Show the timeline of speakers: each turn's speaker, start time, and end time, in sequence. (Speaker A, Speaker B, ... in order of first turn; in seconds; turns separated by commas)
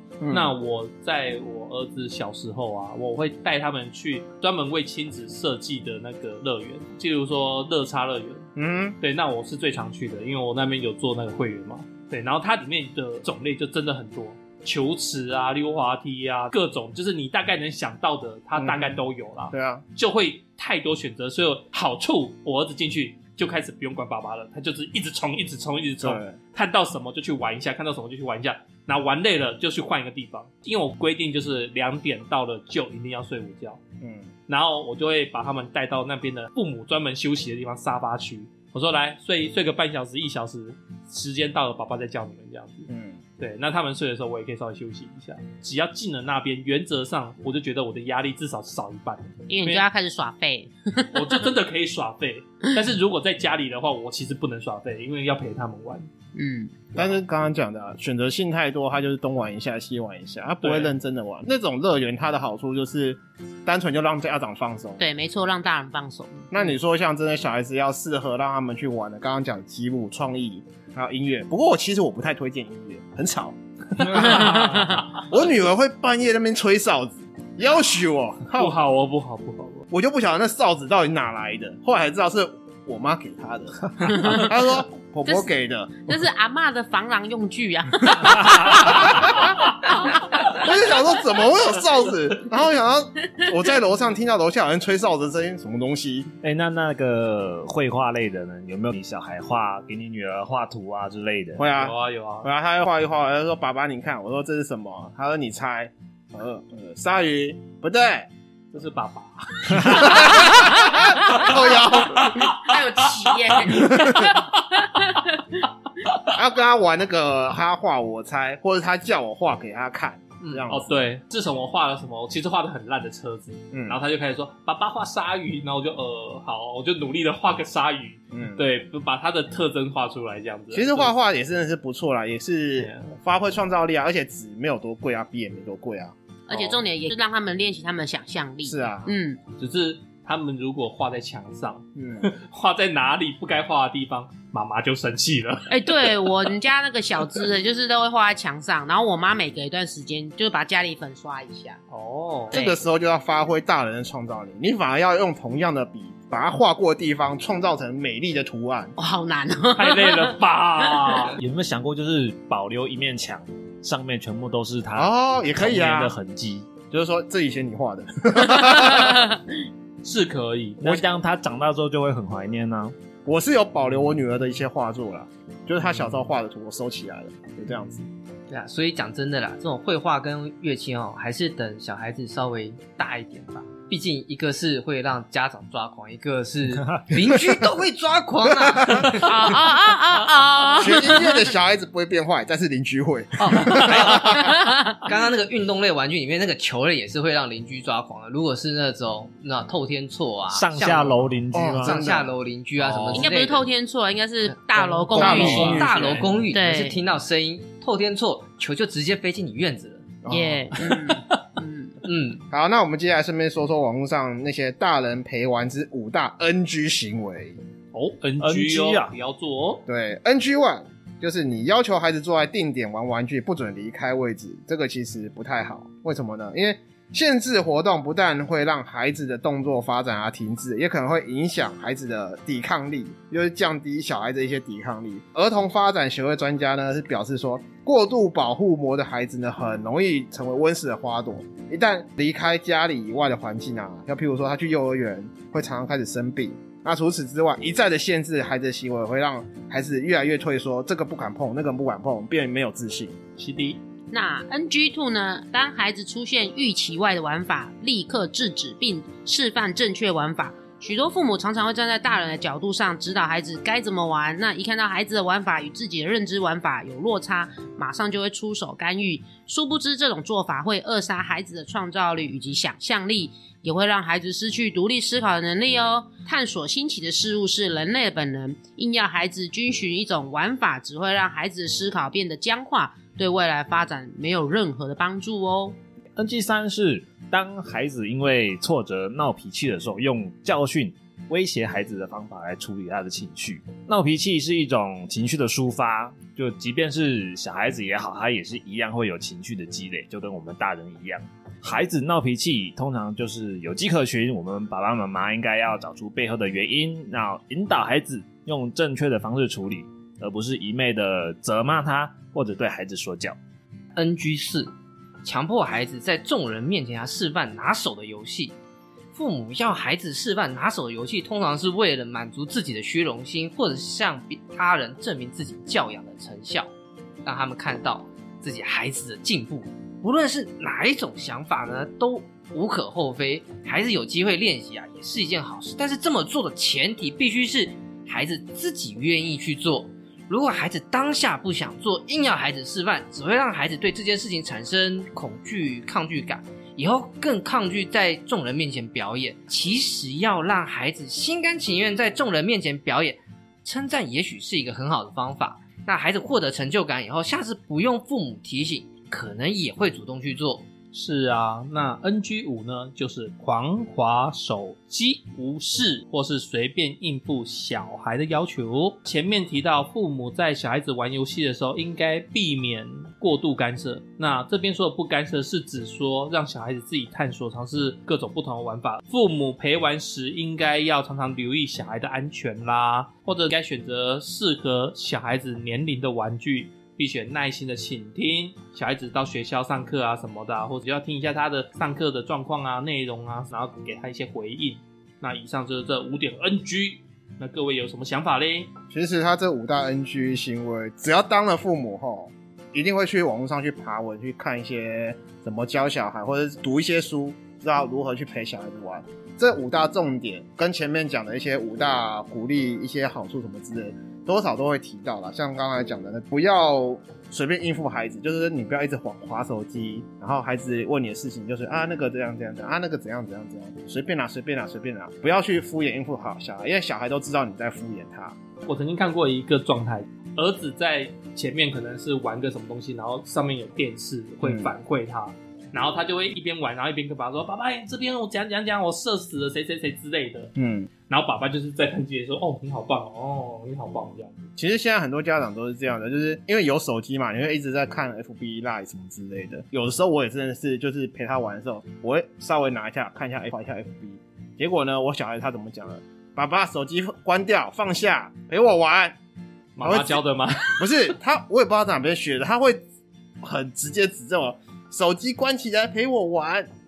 Speaker A: 0.2-0.6, Speaker B: 0.3-8.5, Speaker A: 8.6-9.0, Speaker B: 9.0-33.8, Speaker A: 18.6-19.0, Speaker A: 19.5-19.8, Speaker A: 26.0-26.4, Speaker A: 34.0-34.3, Speaker B: 34.5-49.9, Speaker A: 42.9-43.2, Speaker C: 49.5-51.3, Speaker B: 51.1-56.1, Speaker C: 56.4-56.8, Speaker A: 57.0-65.0, Speaker B: 60.6-60.9, Speaker C: 65.0-66.5, Speaker A: 66.5-78.8, Speaker B: 74.0-75.2, Speaker C: 74.2-75.0, Speaker B: 78.5-79.9, Speaker A: 79.9-86.1, Speaker C: 84.1-84.5, Speaker C: 86.0-89.3, Speaker A: 88.9-89.3, Speaker C: 89.9-90.6, Speaker A: 90.5-96.3, Speaker D: 96.4-101.6, Speaker A: 101.6-108.3, Speaker B: 101.6-102.5, Speaker B: 108.7-110.5, Speaker A: 109.7-112.5, Speaker C: 110.5-111.5, Speaker C: 112.2-115.6, Speaker A: 113.7-114.3, Speaker B: 114.0-114.4, Speaker A: 116.3-121.0, Speaker B: 120.7-131.1, Speaker A: 123.7-124.0, Speaker A: 128.3-128.6, Speaker A: 130.7-136.7, Speaker B: 132.8-133.1, Speaker C: 136.5-139.4, Speaker A: 138.7-139.1, Speaker B: 139.6-146.5, Speaker A: 141.9-142.3, Speaker C: 145.7-151.8, Speaker B: 151.9-152.6, Speaker A: 152.5-158.9, Speaker C: 159.0-161.2, Speaker B: 159.8-161.4, Speaker D: 161.3-166.8, Speaker A: 165.0-166.2, Speaker A: 166.9-169.4, Speaker C: 168.6-169.4, Speaker B: 170.0-170.8, Speaker D: 170.8-172.9, Speaker A: 173.2-178.1, Speaker E: 178.5-189.5, Speaker A: 188.4-189.2, Speaker C: 189.2-191.5, Speaker A: 190.8-194.5, Speaker E: 193.4-203.7, Speaker C: 194.3-195.0, Speaker D: 200.5-202.1, Speaker A: 201.5-202.3, Speaker B: 202.8-203.3, Speaker C: 203.1-205.9, Speaker E: 204.8-210.1, Speaker A: 205.2-206.4, Speaker B: 205.3-206.3, Speaker D: 205.4-205.7, Speaker C: 206.5-207.0, Speaker A: 210.2-211.2, Speaker C: 210.3-211.9, Speaker E: 212.1-212.4, Speaker A: 212.5-217.6, Speaker B: 217.9-219.8, Speaker D: 218.4-219.1, Speaker A: 219.9-253.2, Speaker B: 253.4-253.8, Speaker C: 254.1-285.8, Speaker D: 286.2-313.4, Speaker E: 313.9-314.7, Speaker E: 315.2-318.6, Speaker E: 319.1-326.7, Speaker E: 327.2-360.7, Speaker B: 360.9-398.7, Speaker A: 398.9-428.4, Speaker B: 428.6-440.5, Speaker A: 434.4-434.7, Speaker A: 440.6-440.9, Speaker B: 441.1-444.4, Speaker A: 444.6-459.2, Speaker B: 459.8-461.0, Speaker A: 459.8-460.2, Speaker A: 460.8-462.8, Speaker A: 463.4-466.7